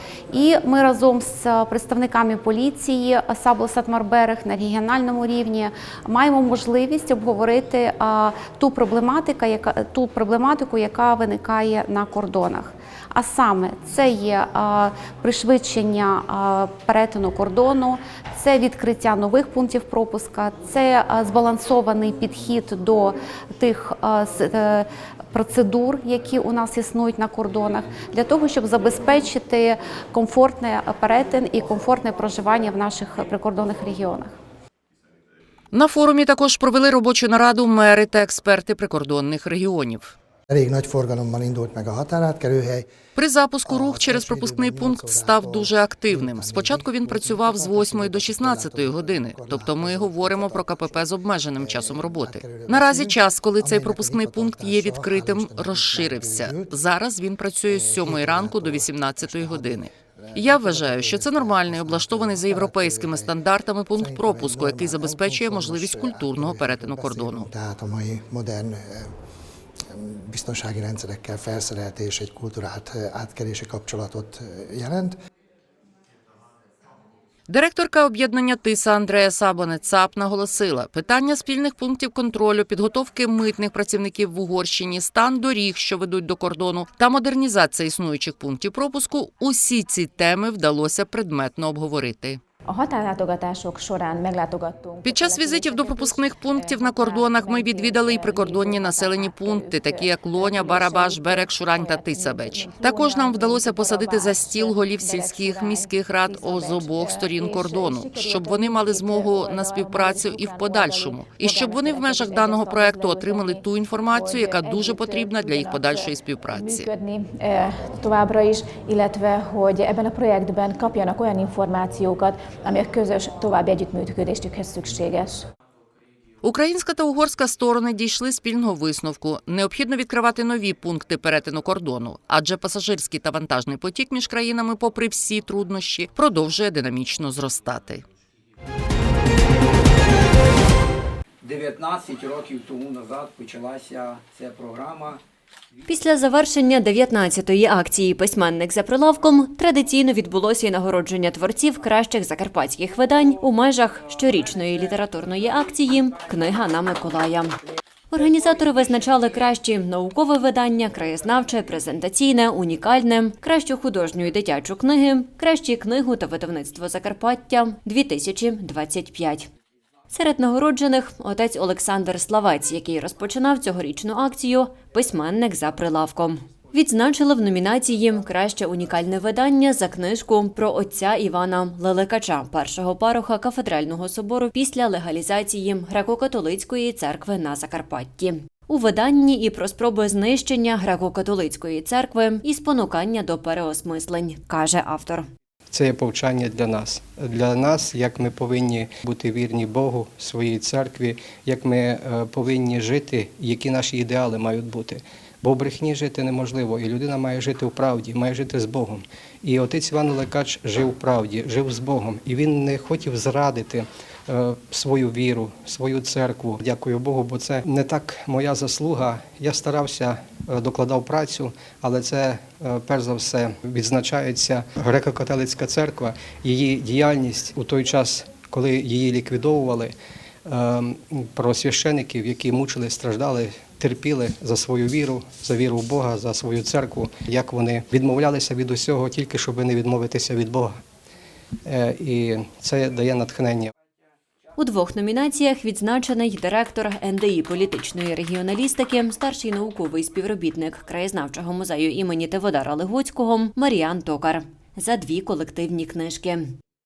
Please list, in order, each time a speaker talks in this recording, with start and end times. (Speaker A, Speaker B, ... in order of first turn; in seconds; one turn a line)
Speaker A: 0.3-34.3
Speaker B: 35.7-40.1
Speaker C: 40.5-42.9
Speaker B: 43.2-67.5
Speaker C: 43.6-56.7
Speaker C: 57.7-63.3
Speaker C: 63.9-69.2
Speaker C: 69.9-75.2
Speaker B: 77.5-92.4
Speaker D: 92.7-125.5
Speaker B: 95.0-116.9
Speaker B: 126.4-138.0
Speaker E: 141.4-145.2
Speaker F: 145.9-157.6
Speaker F: 158.1-169.5
Speaker F: 170.1-195.3
Speaker G: 195.7-229.9
Speaker G: 230.5-240.8
Speaker G: 241.7-243.7
Speaker F: 244.6-256.6